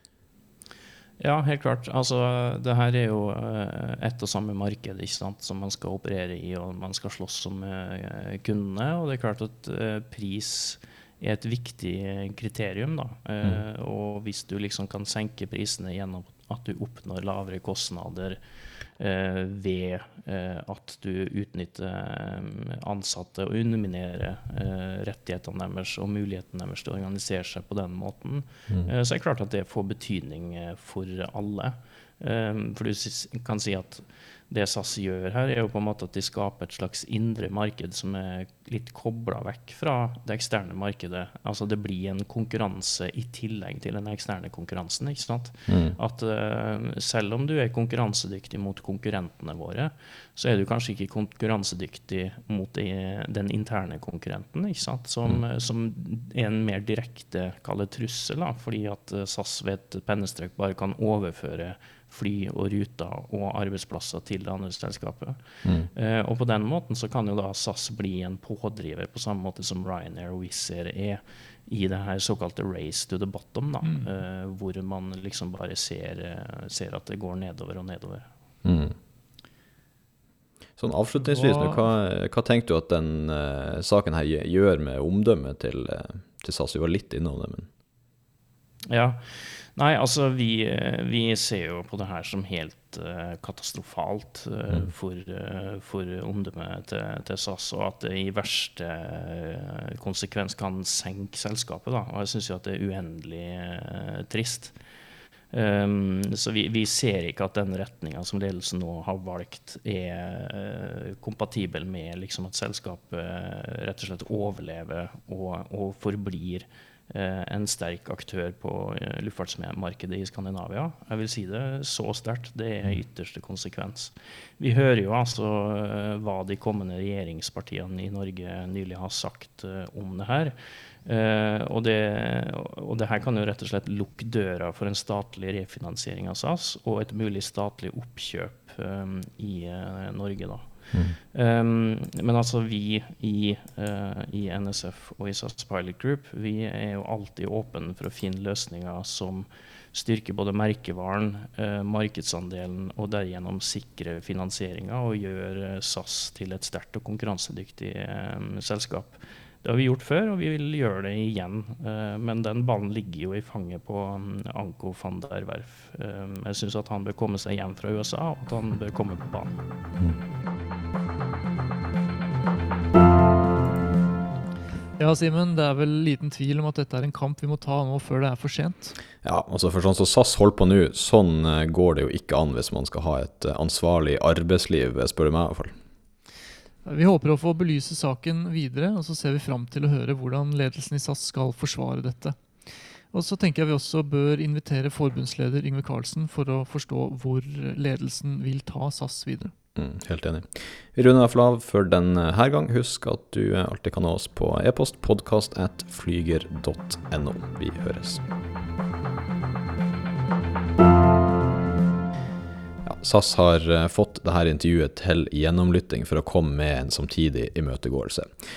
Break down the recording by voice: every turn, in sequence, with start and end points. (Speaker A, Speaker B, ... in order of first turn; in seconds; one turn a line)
Speaker A: 1.2-18.4
Speaker A: 19.0-78.3
Speaker B: 45.7-46.0
Speaker C: 73.8-74.1
Speaker B: 78.6-79.0
Speaker B: 80.8-87.7
Speaker C: 81.2-81.8
Speaker A: 88.9-104.7
Speaker A: 105.5-140.7
Speaker A: 141.2-169.6
Speaker C: 175.0-178.9
Speaker B: 179.2-185.7
Speaker C: 186.8-199.5
Speaker B: 199.7-208.2
Speaker B: 212.8-218.3